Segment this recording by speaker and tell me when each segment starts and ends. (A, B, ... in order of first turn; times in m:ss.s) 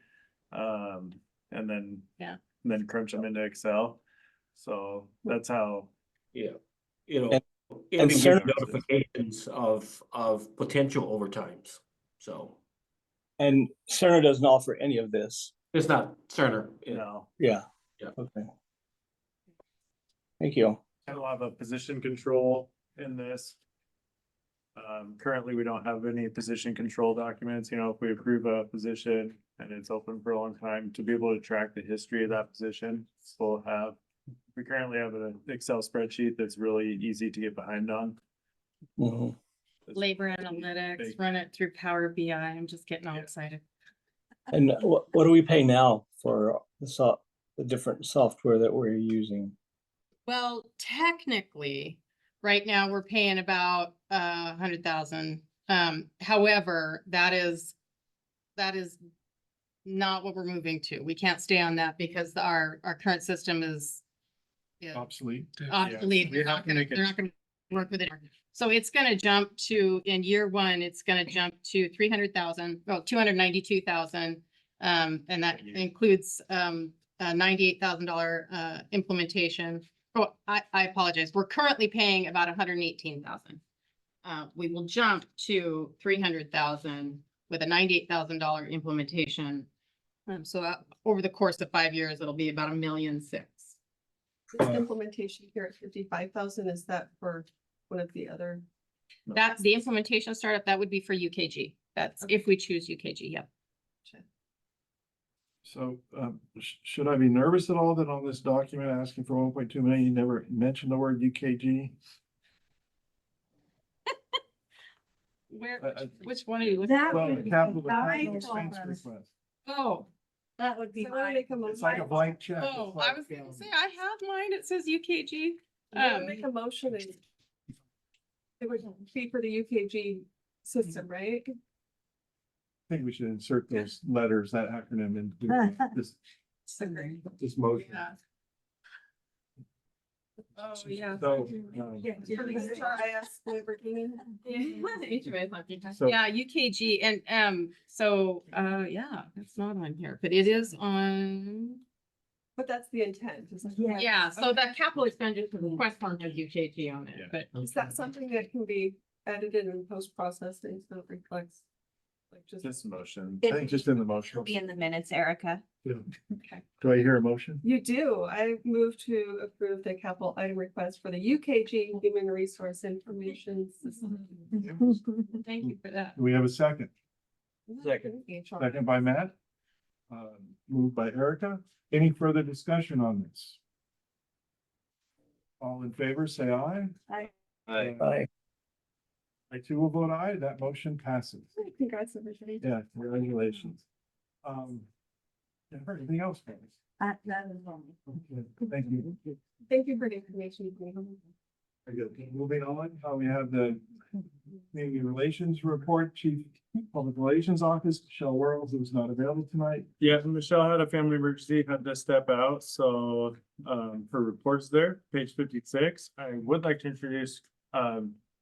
0:00.5-0:04.0 A
0:04.6-0:05.9 A
0:06.3-0:12.6 B
0:08.0-0:08.8 C
0:13.4-0:15.5 C
0:15.7-0:17.0 B
0:16.9-0:17.3 A
0:17.4-0:18.5 C
0:20.4-0:20.8 C
0:21.1-0:23.6 A
0:24.8-0:34.0 A
0:34.6-0:38.2 A
0:39.0-0:39.4 C
0:39.9-0:41.2 A
0:40.0-0:43.6 D
0:44.5-0:49.5 C
0:50.3-0:57.8 D
0:58.6-0:59.0 D
0:59.8-1:04.0 D
1:04.8-1:05.1 D
1:04.9-1:05.6 E
1:05.7-1:23.6 D
1:05.7-1:07.2 A
1:15.5-1:15.9 A
1:24.2-1:29.7 D
1:30.3-1:33.8 D
1:34.5-1:38.6 F
1:34.6-1:34.8 E
1:39.3-1:43.5 D
1:45.6-1:52.0 E
1:55.5-1:58.3 D
1:55.8-1:56.2 E
1:56.8-1:59.0 G
1:56.9-1:59.3 E
1:59.6-2:00.1 D
2:00.6-2:01.4 G
2:01.0-2:02.4 F
2:01.6-2:03.6 E
2:02.6-2:06.4 D
2:05.9-2:07.2 F
2:08.6-2:11.5 F
2:12.9-2:16.2 E
2:16.8-2:17.1 D
2:16.9-2:17.2 F
2:17.4-2:18.0 E
2:17.8-2:18.2 D
2:20.6-2:21.6 D
2:20.8-2:22.3 E
2:20.9-2:21.4 F
2:22.1-2:22.9 G
2:22.2-2:23.0 D
2:22.2-2:24.8 F
2:24.4-2:31.8 D
2:32.6-2:34.6 F
2:34.0-2:37.5 D
2:37.1-2:37.4 A
2:37.6-2:41.6 F
2:42.3-2:42.8 F
2:42.6-2:43.6 A
2:43.4-2:45.6 G
2:43.4-2:44.6 E
2:46.3-2:46.6 F
2:46.8-2:47.6 E
2:47.6-2:54.8 F
2:54.6-2:55.0 E
2:55.4-2:56.2 D
2:55.7-2:56.9 E
2:57.7-2:59.0 F
2:58.6-2:59.4 E
3:00.1-3:03.6 E
3:05.6-3:07.0 E
3:07.7-3:08.2 E
3:08.0-3:08.3 C
3:09.5-3:11.5 E
3:11.6-3:12.6 F
3:12.6-3:13.8 E
3:14.4-3:14.9 E
3:15.7-3:16.8 E
3:17.0-3:18.0 G
3:18.1-3:19.2 E
3:19.7-3:21.2 F
3:21.9-3:23.8 E
3:24.7-3:29.9 E
3:30.0-3:38.2 A